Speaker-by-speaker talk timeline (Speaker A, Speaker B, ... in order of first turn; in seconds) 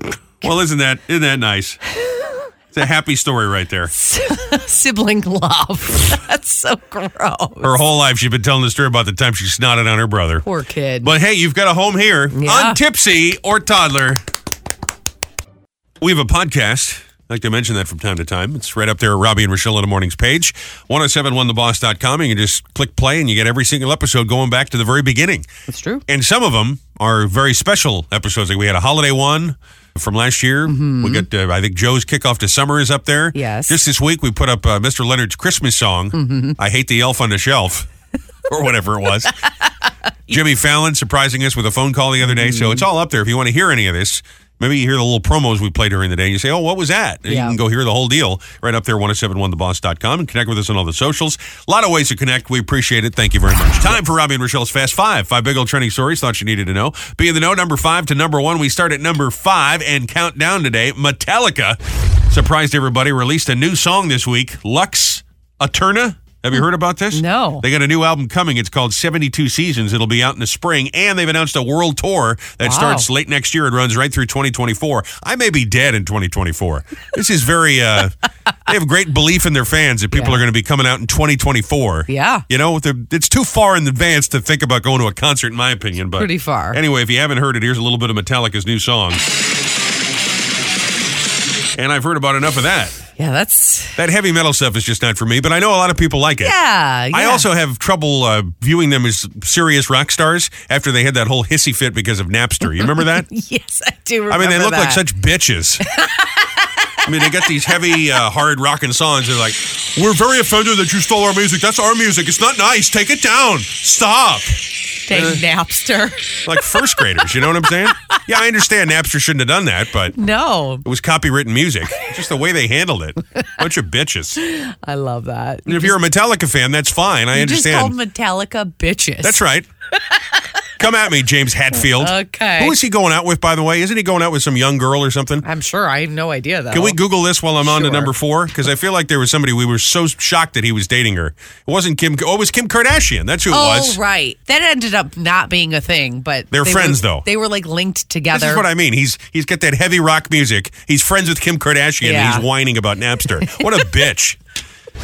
Speaker A: 0.4-1.8, 2.7-3.9, 7.6-10.4, 11.0-14.2, 16.0-25.4, 26.1-37.9, 38.5-39.4, 40.3-78.1, 78.7-89.3, 91.7-93.0, 94.0-96.5, 97.1-103.3, 104.3-105.8, 107.0-115.4, 116.4-120.2, 120.8-124.4, 125.7-127.9, 129.2-129.7, 130.8-135.4, 136.7-144.0, 146.5-147.2, 148.3-154.4
Speaker B: 2.1-2.4, 3.9-7.7, 10.4-11.1, 12.3-12.8, 25.7-26.0, 30.6-31.2, 33.3-33.8, 36.1-36.6, 42.2-42.8, 47.3-47.6, 67.1-67.6, 72.6-73.1, 80.1-80.4, 82.1-82.4, 86.2-86.8, 93.2-94.0, 96.4-97.4, 102.6-105.0, 105.8-107.8, 115.1-117.0, 117.8-118.2, 120.1-120.8, 124.4-126.0, 127.3-129.4, 129.9-130.4, 131.8-132.8, 135.4-137.0, 137.6-138.1, 143.5-148.7, 152.0-152.4, 153.4-153.9